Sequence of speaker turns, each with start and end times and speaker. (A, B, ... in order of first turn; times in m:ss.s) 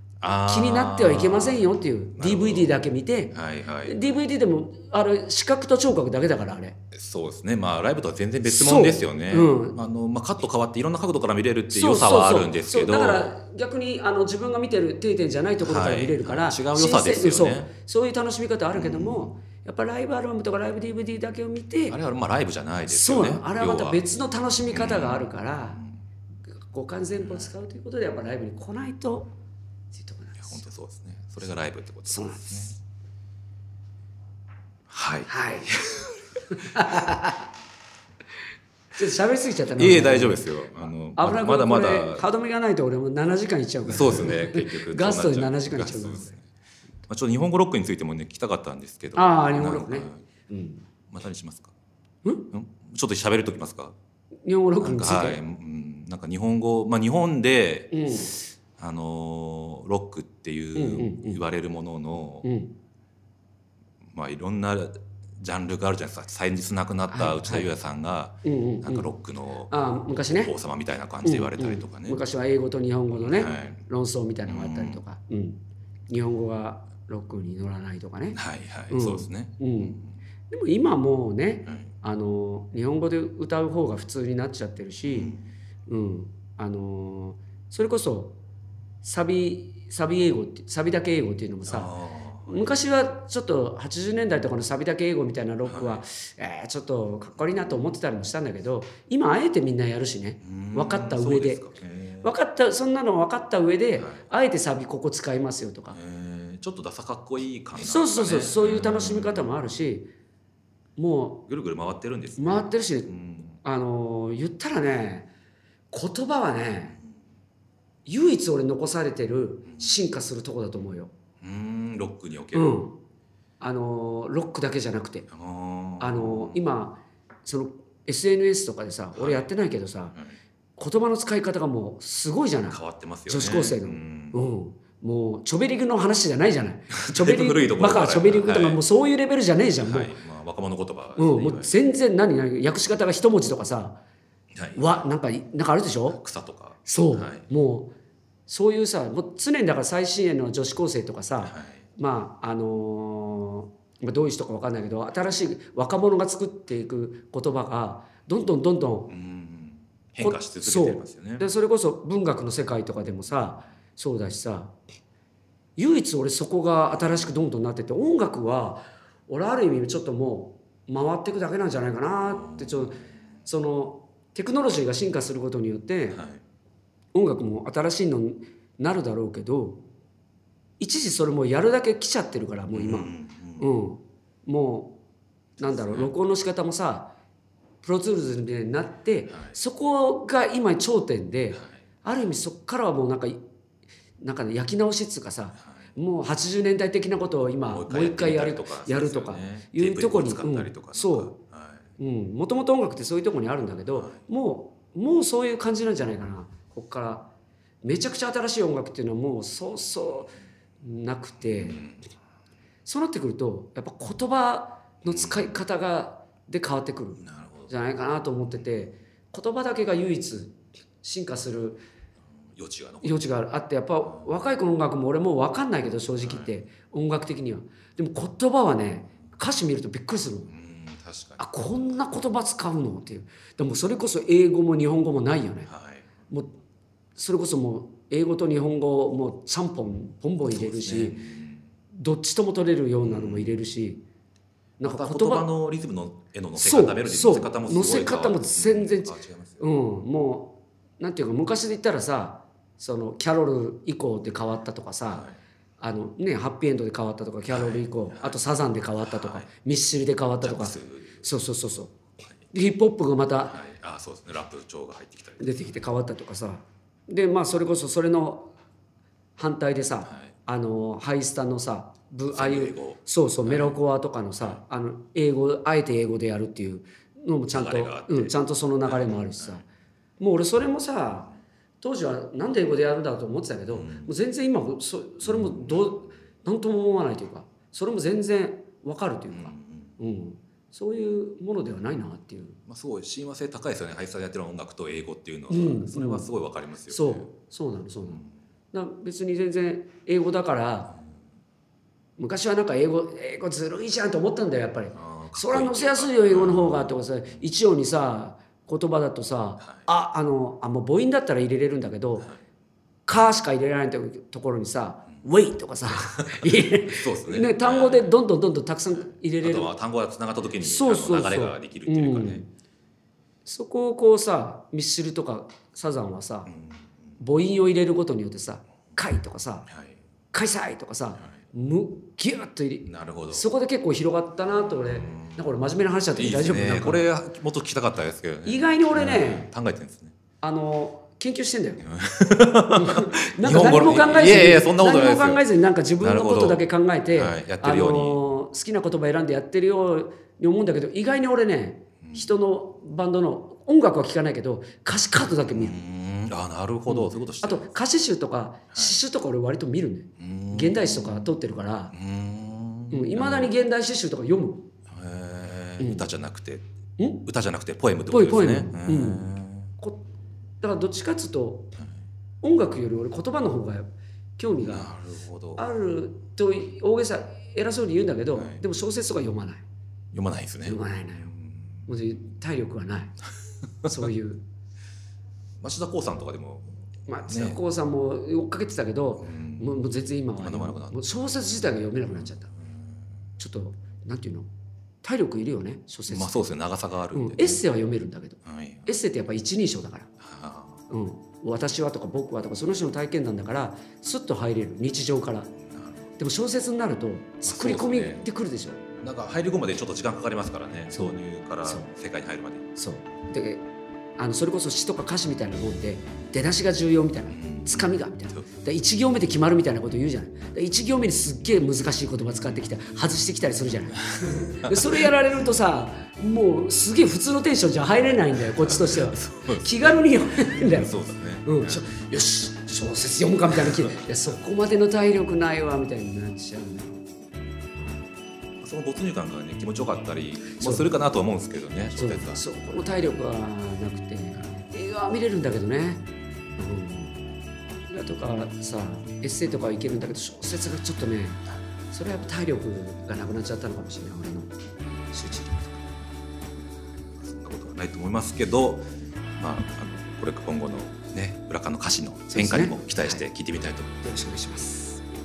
0:00.2-0:02.8 A
0:00.4-0:06.8 B
0:03.3-0:04.2 A
0:06.9-0:13.3 A
0:08.4-0:09.8 B
0:11.7-0:22.0 B
0:15.6-0:17.7 A
0:18.7-0:19.3 A
0:21.9-0:24.0 A
0:22.9-0:25.8 B
0:24.7-0:26.0 A
0:26.6-0:29.4 B
0:27.2-0:27.5 A
0:29.9-0:30.6 B
0:30.4-0:32.7 A
0:32.0-0:32.8 B
0:34.9-0:36.8 A
0:35.3-0:35.8 B
0:36.5-0:37.5 B
0:38.9-0:40.6 B
0:39.8-0:42.2 A
0:41.1-0:46.4 B
0:43.9-0:46.4 A
0:47.1-0:50.2 A
0:49.1-0:50.9 B
0:51.1-0:51.7 A
0:52.5-0:53.9 A
0:54.4-0:55.4 B
0:54.8-1:02.5 A
0:57.9-0:58.4 B
1:00.7-1:01.4 B
1:02.4-1:02.7 B
1:04.0-1:09.7 A
1:07.1-1:07.7 B
1:08.4-1:09.1 B
1:09.7-1:10.5 B
1:10.2-1:12.2 A
1:11.2-1:20.0 B
1:13.2-1:13.8 A
1:14.4-1:15.0 A
1:18.4-1:20.1 A
1:20.5-1:25.3 B
1:25.0-1:25.4 A
1:25.9-1:28.4 B
1:29.0-1:31.9 B
1:31.6-1:32.8 A
1:32.4-1:41.6 B
1:35.6-1:36.0 A
1:40.4-1:42.3 A
1:42.2-1:46.0 B
1:44.0-1:44.3 A
1:45.9-1:49.6 A
1:47.8-1:50.1 B
1:51.0-1:51.5 B
1:51.5-1:53.6 A
1:52.4-1:53.1 B
1:53.6-1:55.3 B
1:55.9-1:57.0 B
1:58.0-2:01.1 B
1:59.7-2:00.0 A
2:01.4-2:02.7 A
2:02.5-2:03.0 B
2:03.6-2:05.3 B
2:05.3-2:06.6 A
2:06.0-2:10.2 B
2:09.1-2:09.5 A
2:10.8-2:20.1 B
2:12.7-2:14.4 A
2:16.9-2:18.8 A
2:19.8-2:21.7 A
2:21.2-2:24.0 B
2:24.5-2:24.8 A
2:24.8-2:26.2 B
2:26.1-2:27.4 A
2:26.9-2:27.9 B
2:28.5-2:39.1 B
2:31.4-2:31.8 A
2:39.1-2:41.4 A
2:40.2-2:44.8 B
2:45.8-2:56.2 B
2:46.9-2:47.3 A
2:52.2-2:53.0 A
2:56.1-2:56.4 A
2:57.1-2:59.8 B
3:00.8-3:05.0 B
3:02.7-3:03.7 A
3:05.6-3:06.1 A
3:05.6-3:07.1 B
3:07.8-3:13.4 B
3:14.2-3:21.4 B
3:17.7-3:21.9 A
3:22.0-3:27.3 B
3:23.9-3:24.2 A
3:27.8-3:31.8 B
3:31.5-3:32.0 A
3:32.8-3:41.8 B
3:35.0-3:35.5 A
3:37.2-3:37.7 A
3:42.5-3:43.2 A
3:43.0-3:50.5 B
3:46.2-3:46.5 A
3:50.5-3:51.4 A
3:51.4-3:55.7 B
3:55.7-3:56.1 A
3:56.3-3:56.5 B
3:57.2-4:01.2 B
4:00.4-4:01.7 A
4:01.9-4:04.0 B
4:03.0-4:03.6 A
4:04.8-4:05.5 B
4:04.8-4:09.6 A
4:06.6-4:15.3 B
4:15.1-4:15.4 A
4:15.8-4:22.0 B
4:17.5-4:18.4 A
4:19.0-4:19.5 A
4:20.4-4:21.2 A
4:22.5-4:23.6 B
4:23.5-4:25.8 A
4:25.4-4:28.5 B
4:29.4-4:39.6 B
4:32.3-4:33.8 A
4:37.5-4:38.3 A
4:38.9-4:39.6 A
4:40.2-4:52.6 B
4:43.7-4:44.1 A
4:45.2-4:45.9 A
4:49.3-4:49.9 A
4:52.7-4:57.3 A
4:55.5-4:56.3 B
4:56.9-5:01.0 B
5:02.2-5:12.3 B
5:04.9-5:06.9 A
5:13.0-5:19.7 B
5:16.2-5:18.1 A
5:19.0-5:22.4 A
5:20.6-5:22.4 B
5:23.4-5:26.5 B
5:26.5-5:26.9 A
5:27.2-5:29.7 B
5:29.7-5:30.0 A
5:30.3-5:37.0 B
5:32.9-5:33.4 A
5:34.9-5:35.4 A
5:36.1-5:40.1 A
5:38.4-5:39.5 B
5:40.4-5:41.8 B
5:41.8-5:45.4 A
5:42.7-5:55.8 B
5:46.0-5:48.2 A
5:52.0-5:52.3 A
5:55.4-5:57.7 A
5:56.9-6:01.9 B
6:00.2-6:01.4 A
6:01.9-6:03.5 A
6:02.9-6:04.7 B
6:04.9-6:06.6 A
6:05.8-6:06.1 B
6:07.0-6:07.2 B
6:07.2-6:09.7 A
6:08.1-6:10.0 B
6:10.6-6:11.7 B
6:12.4-6:14.9 B
6:14.6-6:15.6 A
6:15.6-6:19.6 B
6:18.3-6:18.6 A
6:20.1-6:21.9 A
6:20.6-6:21.3 B
6:21.9-6:23.2 B
6:23.8-6:24.4 B
6:25.6-6:27.6 A
6:27.1-6:32.5 B
6:29.2-6:29.7 A
6:30.4-6:31.0 A
6:33.4-6:34.5 B
6:35.0-6:36.5 B
6:36.1-6:37.6 A
6:37.1-6:40.1 B
6:38.4-6:38.9 A
6:40.2-6:40.8 A
6:40.9-6:45.5 B
6:45.7-6:46.0 A
6:46.2-6:48.8 B
6:47.4-6:48.2 A
6:49.0-6:52.7 A
6:50.9-6:51.9 B
6:52.8-6:53.6 B
6:54.2-7:10.9 B
6:57.3-6:58.4 A
7:04.2-7:05.2 A
7:08.3-7:11.8 A
7:11.4-7:17.0 B
7:13.5-7:14.0 A
7:18.6-7:22.4 A
7:20.5-7:20.9 B
7:21.9-7:27.2 B
7:27.9-7:34.5 B
7:35.1-7:35.8 B
7:37.2-7:44.0 A
7:42.3-7:43.2 B
7:44.0-7:45.0 B